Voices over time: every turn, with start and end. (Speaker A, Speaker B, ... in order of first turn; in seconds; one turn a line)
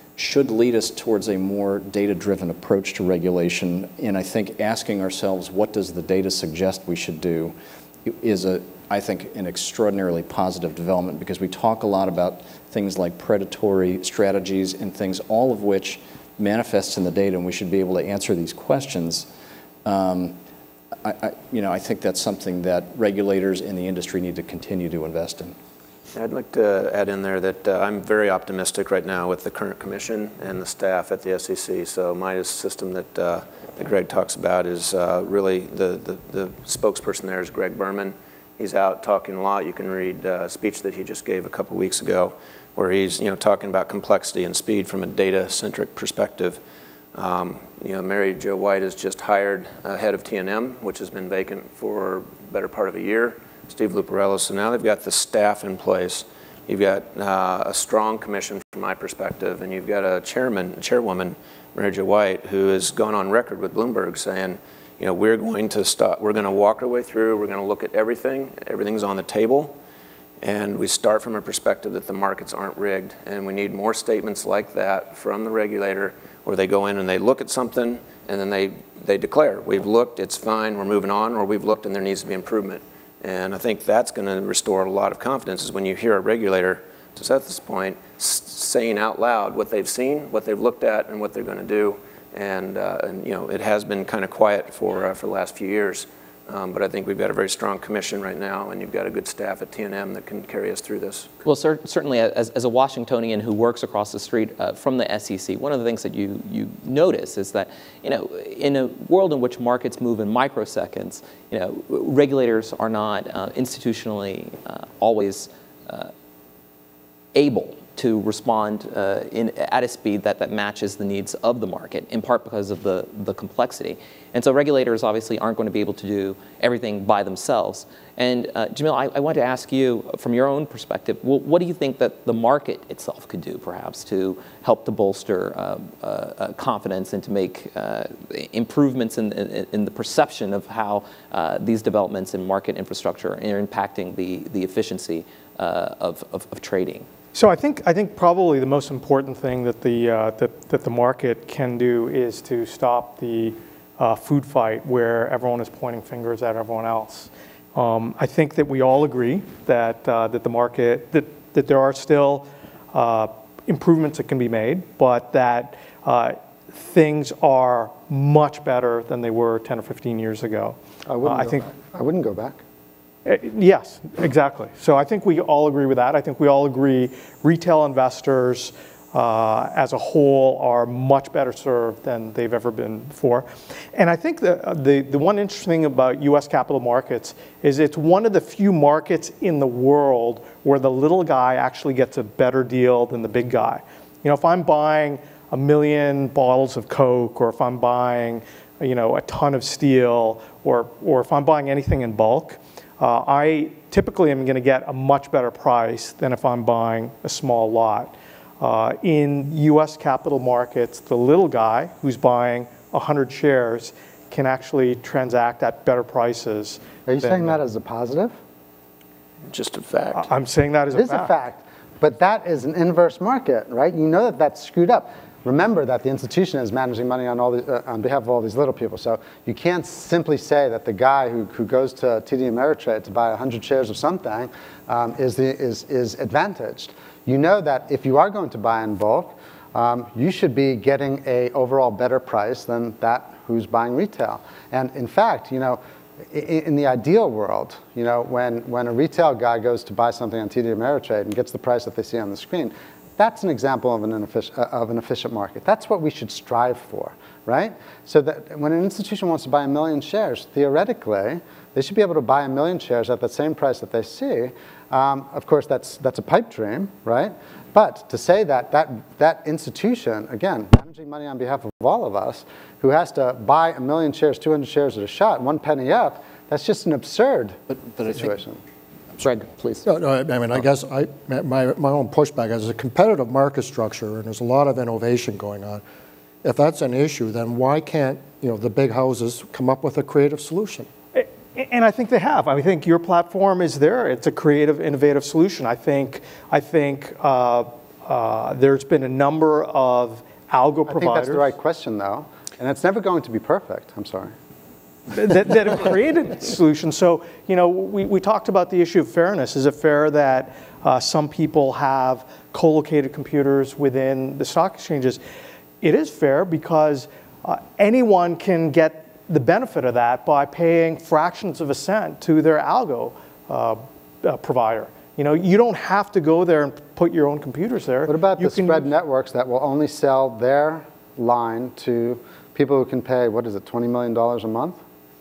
Speaker A: 0.2-19.3
Speaker A: 19.9-20.4
Speaker A: 21.0-25.6
Speaker B: 26.1-46.6
Speaker B: 47.1-69.8
Speaker B: 70.4-101.4
Speaker C: 101.5-116.1
Speaker C: 117.3-147.1
Speaker D: 147.3-171.7
Speaker E: 171.1-172.6
Speaker D: 173.2-217.6
Speaker E: 217.1-218.3
Speaker B: 219.5-220.3
Speaker D: 220.2-221.3
Speaker E: 220.9-278.6
Speaker A: 277.7-278.3
Speaker A: 279.2-279.8
Speaker F: 279.8-285.8
Speaker F: 286.4-290.9
Speaker D: 291.1-301.5
Speaker E: 300.9-304.3
Speaker D: 305.1-315.2
Speaker D: 315.8-328.9
Speaker E: 328.1-334.8